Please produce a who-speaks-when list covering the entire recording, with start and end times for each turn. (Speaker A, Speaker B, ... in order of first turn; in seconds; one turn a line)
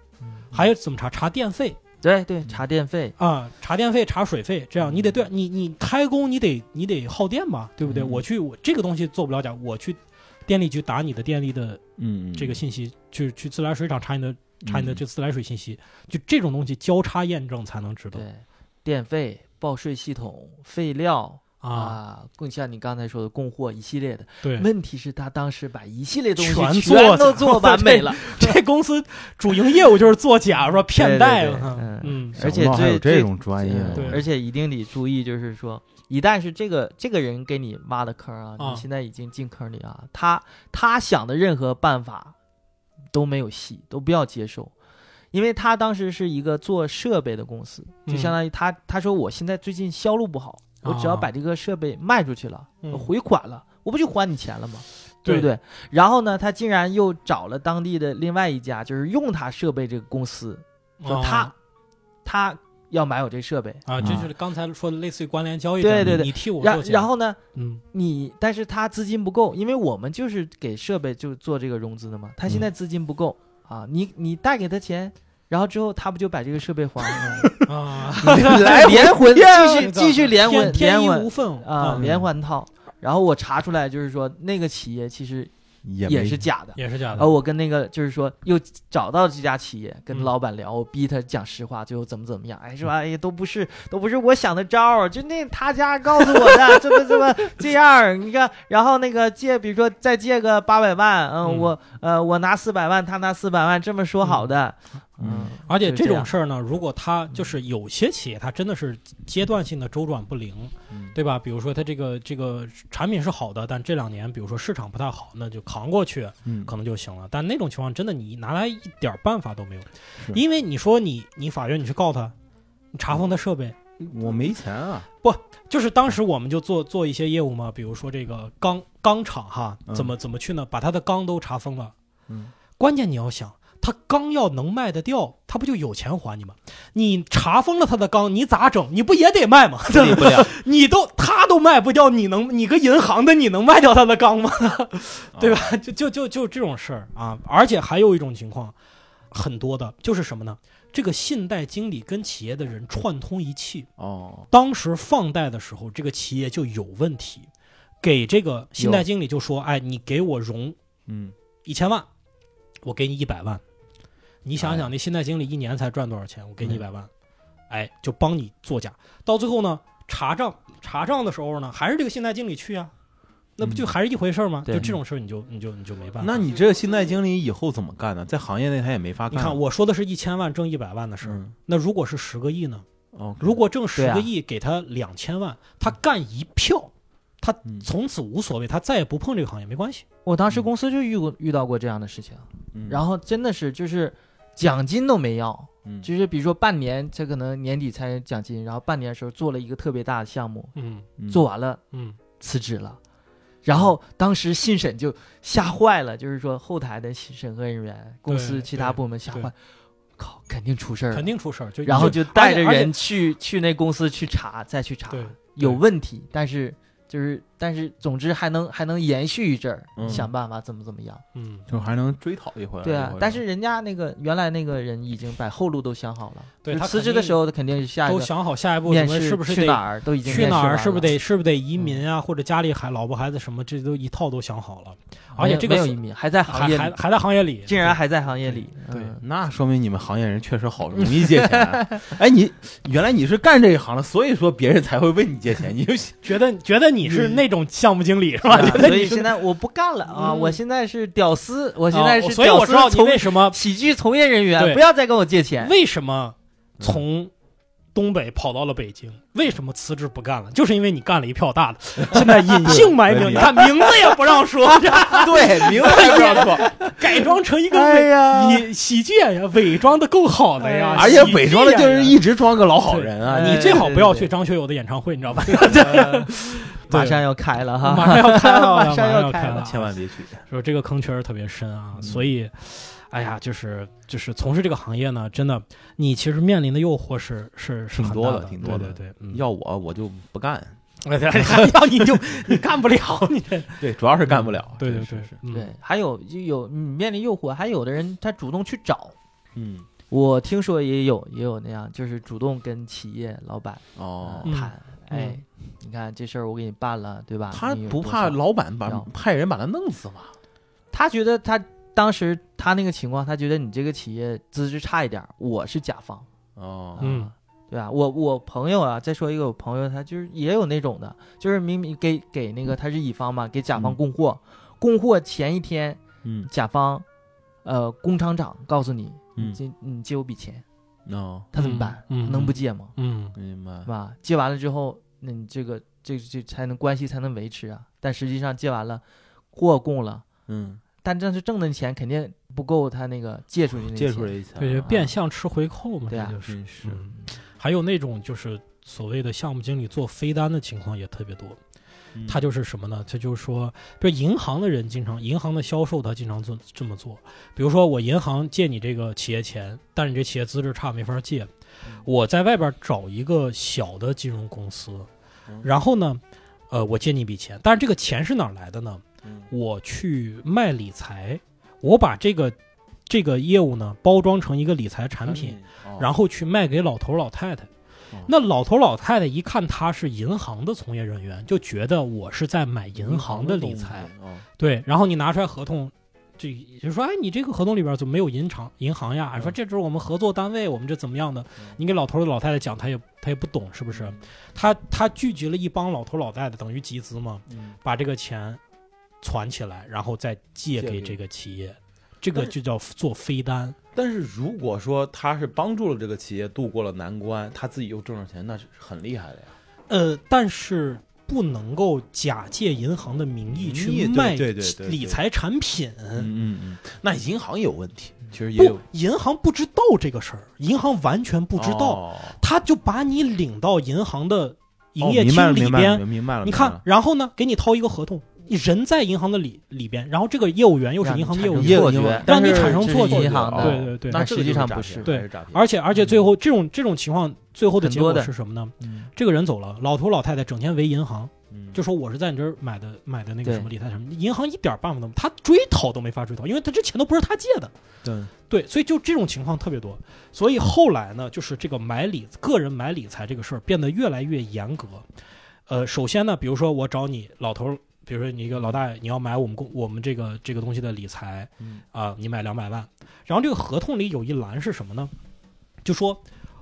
Speaker A: 0.5-1.8
Speaker B: 2.0-3.1
Speaker A: 3.2-11.8
Speaker C: 7.8-8.2
Speaker C: 12.0-12.6
Speaker A: 12.3-18.2
Speaker C: 14.6-15.0
Speaker B: 18.1-28.6
Speaker A: 21.6-22.0
Speaker A: 24.4-24.7
Speaker A: 26.4-32.4
Speaker B: 30.9-42.4
Speaker C: 32.4-34.2
Speaker A: 33.9-34.2
Speaker A: 38.6-38.8
Speaker B: 43.1-44.7
Speaker B: 45.3-61.5
Speaker A: 48.1-48.4
Speaker A: 50.8-51.3
Speaker A: 52.8-53.1
Speaker A: 61.0-61.5
Speaker B: 62.2-64.2
Speaker A: 63.9-67.8
Speaker C: 64.0-64.3
Speaker B: 65.8-67.4
Speaker B: 67.9-77.6
Speaker C: 77.2-77.5
Speaker A: 77.6-82.0
Speaker B: 78.2-85.5
Speaker C: 78.2-79.8
Speaker C: 82.0-82.3
Speaker C: 85.8-86.5
Speaker B: 86.0-106.3
Speaker A: 86.8-87.3
Speaker A: 101.5-101.7
Speaker C: 105.2-105.5
Speaker A: 105.7-122.3
Speaker C: 116.5-116.7
Speaker A: 122.9-124.3
Speaker C: 124.0-125.1
Speaker A: 125.2-131.9
Speaker C: 129.9-130.1
Speaker C: 132.3-132.5
Speaker A: 132.8-148.8
Speaker C: 139.9-140.5
Speaker C: 145.3-145.7
Speaker A: 149.3-153.9
Speaker C: 154.0-154.5
Speaker A: 154.5-157.5
Speaker A: 158.0-160.8
Speaker B: 158.8-159.1
Speaker C: 161.1-161.3
Speaker A: 161.7-162.1
Speaker A: 162.8-163.6
Speaker A: 164.4-167.1
Speaker C: 164.6-164.9
Speaker A: 167.7-172.9
Speaker A: 173.6-176.4
Speaker C: 173.6-173.9
Speaker B: 174.7-174.9
Speaker C: 176.2-179.6
Speaker A: 179.3-182.8
Speaker C: 181.2-181.5
Speaker C: 183.1-183.6
Speaker A: 183.4-190.0
Speaker B: 184.0-184.3
Speaker B: 190.3-200.7
Speaker C: 192.7-193.0
Speaker A: 200.8-201.1
Speaker C: 201.2-201.4
Speaker B: 201.3-201.8
Speaker A: 201.9-202.2
Speaker B: 202.4-203.0
Speaker B: 203.7-209.6
Speaker A: 208.3-209.5
Speaker B: 210.2-211.3
Speaker A: 211.1-212.9
Speaker B: 211.8-221.2
Speaker C: 211.9-212.2
Speaker A: 215.1-215.8
Speaker C: 220.0-220.3
Speaker A: 221.3-221.7
Speaker C: 221.7-223.4
Speaker B: 222.8-228.3
Speaker A: 226.6-227.4
Speaker A: 228.1-238.0
Speaker B: 228.8-231.1
Speaker B: 235.4-237.0
Speaker B: 237.7-239.2
Speaker C: 239.2-246.2
Speaker B: 241.2-242.0
Speaker A: 246.2-249.3
Speaker B: 248.5-255.7
Speaker C: 248.6-248.9
Speaker A: 250.2-250.6
Speaker A: 251.9-253.6
Speaker A: 255.6-257.3
Speaker A: 257.9-272.1
Speaker C: 262.0-263.9
Speaker B: 265.0-266.9
Speaker C: 265.1-266.8
Speaker B: 267.7-268.7
Speaker B: 270.6-271.5
Speaker C: 270.9-273.9
Speaker A: 272.9-277.2
Speaker B: 273.2-274.3
Speaker B: 275.5-279.7
Speaker A: 277.8-279.9
Speaker C: 279.6-280.4
Speaker A: 280.5-289.4
Speaker C: 282.0-282.3
Speaker C: 287.9-290.8
Speaker A: 291.0-295.7
Speaker C: 291.3-291.8
Speaker C: 292.3-292.6
Speaker C: 293.8-295.4
Speaker B: 295.5-299.1
Speaker C: 299.6-299.9
Speaker B: 300.1-309.1
Speaker C: 304.0-304.5
Speaker A: 304.5-305.4
Speaker C: 307.5-310.4
Speaker B: 310.9-316.3
Speaker C: 316.6-317.0
Speaker B: 316.9-327.1
Speaker A: 317.0-317.3
Speaker C: 326.2-326.5
Speaker B: 327.6-330.6
Speaker C: 331.1-331.5
Speaker B: 331.5-332.9
Speaker A: 331.6-333.4
Speaker C: 333.4-333.9
Speaker B: 333.9-339.0
Speaker B: 339.5-340.2
Speaker C: 340.5-340.8
Speaker B: 341.0-344.4
Speaker C: 343.9-345.1
Speaker A: 344.6-351.6
Speaker B: 346.1-346.4
Speaker C: 346.5-347.0
Speaker C: 352.1-352.4
Speaker A: 352.3-361.5
Speaker A: 362.0-365.1
Speaker A: 365.6-372.6
Speaker C: 369.2-369.5
Speaker A: 373.1-377.7
Speaker C: 375.2-376.1
Speaker A: 378.3-398.6
Speaker C: 383.0-384.5
Speaker C: 393.9-394.2
Speaker C: 397.5-397.8
Speaker A: 399.2-403.8
Speaker C: 400.8-401.2
Speaker C: 403.9-409.5
Speaker A: 409.9-416.3
Speaker C: 413.5-415.2
Speaker C: 416.2-418.8
Speaker A: 418.6-434.2
Speaker C: 421.6-422.4
Speaker C: 425.0-426.8
Speaker B: 431.0-435.1
Speaker C: 431.6-436.1
Speaker A: 435.1-447.7
Speaker B: 437.8-439.1
Speaker C: 441.5-441.8
Speaker B: 443.4-443.7
Speaker C: 448.0-448.3
Speaker A: 448.5-455.1
Speaker A: 455.7-465.1
Speaker A: 465.8-466.2